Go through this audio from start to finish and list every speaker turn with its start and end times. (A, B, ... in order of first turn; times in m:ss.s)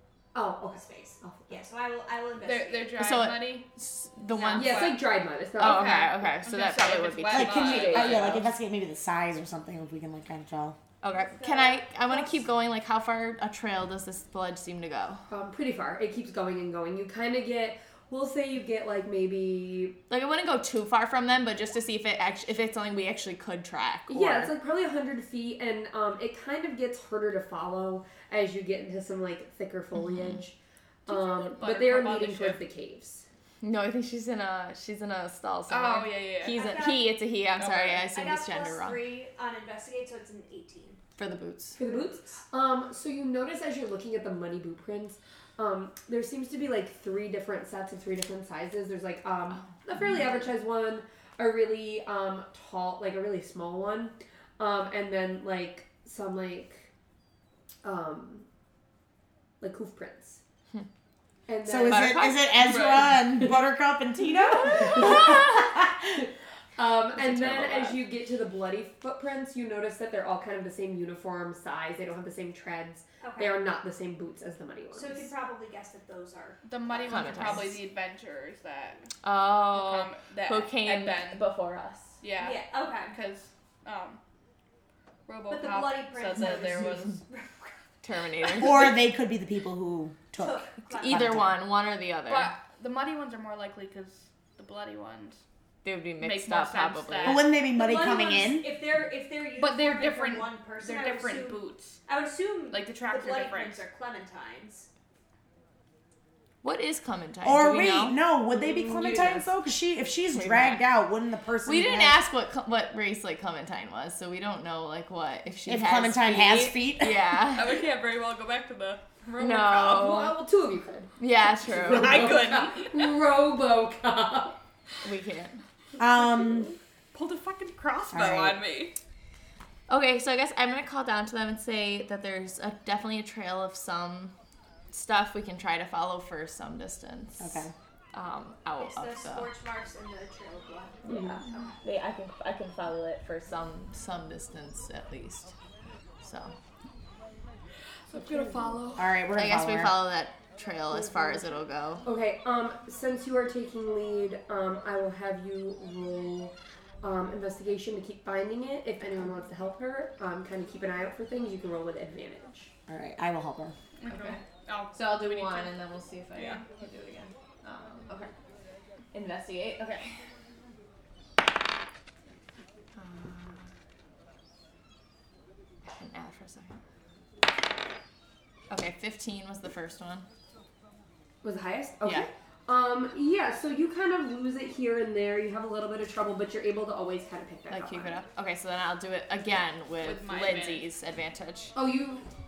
0:00.3-0:01.6 A
0:01.5-0:03.0 B
0:02.4-0:03.7 C
0:03.0-0:05.0 D
0:04.3-0:05.0 B
0:04.5-0:06.1 A
0:05.6-0:08.4 D
0:05.6-0:08.4 C
0:07.3-0:10.8 E
0:11.0-0:15.2 D
0:15.3-0:20.0 A
0:20.1-0:24.5 D
0:24.1-0:33.2 A
0:29.9-0:30.4 D
0:31.0-0:32.6 C
0:33.6-0:39.0 D
0:35.7-0:36.6 C
0:36.5-0:37.2 B
0:37.5-0:38.0 C
0:38.0-0:41.0 B
0:41.2-0:41.8 D
0:41.8-0:56.9 A
0:57.8-0:58.4 A
0:59.6-1:00.4 A
1:01.5-1:02.4 A
1:01.6-1:06.2 E
1:01.9-1:02.8 D
1:02.6-1:03.1 C
1:04.2-1:05.6 A
1:04.8-1:05.5 D
1:06.8-1:15.3 A
1:07.1-1:08.0 D
1:13.2-1:13.6 B
1:14.9-1:17.6 B
1:16.6-1:19.1 C
1:16.9-1:17.8 D
1:19.2-1:22.2 D
1:19.7-1:21.4 C
1:22.2-1:24.2 C
1:22.4-1:23.1 B
1:25.3-1:27.2 C
1:25.5-1:27.8 B
1:28.0-1:29.0 D
1:28.4-1:28.7 B
1:28.6-1:31.6 E
1:30.4-1:31.4 B
1:30.9-1:32.5 D
1:32.2-1:35.4 C
1:35.8-1:37.5 D
1:36.2-1:37.4 C
1:37.2-1:38.7 E
1:37.6-1:44.9 B
1:39.6-1:42.0 C
1:42.7-1:43.8 C
1:46.6-1:48.2 D
1:47.4-1:52.2 E
1:48.5-1:49.5 A
1:50.3-1:50.8 D
1:51.6-1:57.8 D
1:55.6-1:57.3 E
1:57.5-2:00.1 C
1:59.4-2:00.3 D
1:59.9-2:01.1 A
2:01.2-2:02.3 D
2:01.6-2:04.6 A
2:01.8-2:03.2 C
2:05.0-2:05.6 D
2:06.0-2:06.7 E
2:06.0-2:06.8 A
2:07.1-2:08.9 C
2:08.1-2:08.6 E
2:09.9-2:14.3 D
2:14.9-2:19.5 D
2:17.4-2:17.7 E
2:18.8-2:21.6 B
2:21.0-2:25.5 D
2:21.1-2:21.4 A
2:26.2-2:26.5 D
2:28.1-2:29.0 C
2:28.1-2:29.0 A
2:29.0-2:30.0 E
2:29.3-2:32.0 D
2:30.9-2:31.5 A
2:32.0-2:42.7 A
2:42.9-2:43.7 E
2:44.0-2:45.7 C
2:44.1-2:44.4 D
2:44.9-2:48.3 D
2:46.3-2:46.6 C
2:49.1-2:50.2 D
2:52.9-2:53.7 D
2:55.9-2:56.8 D
2:58.7-3:00.2 D
3:01.4-3:08.2 A
3:07.7-3:11.7 D
3:10.0-3:10.8 C
3:11.7-3:12.3 A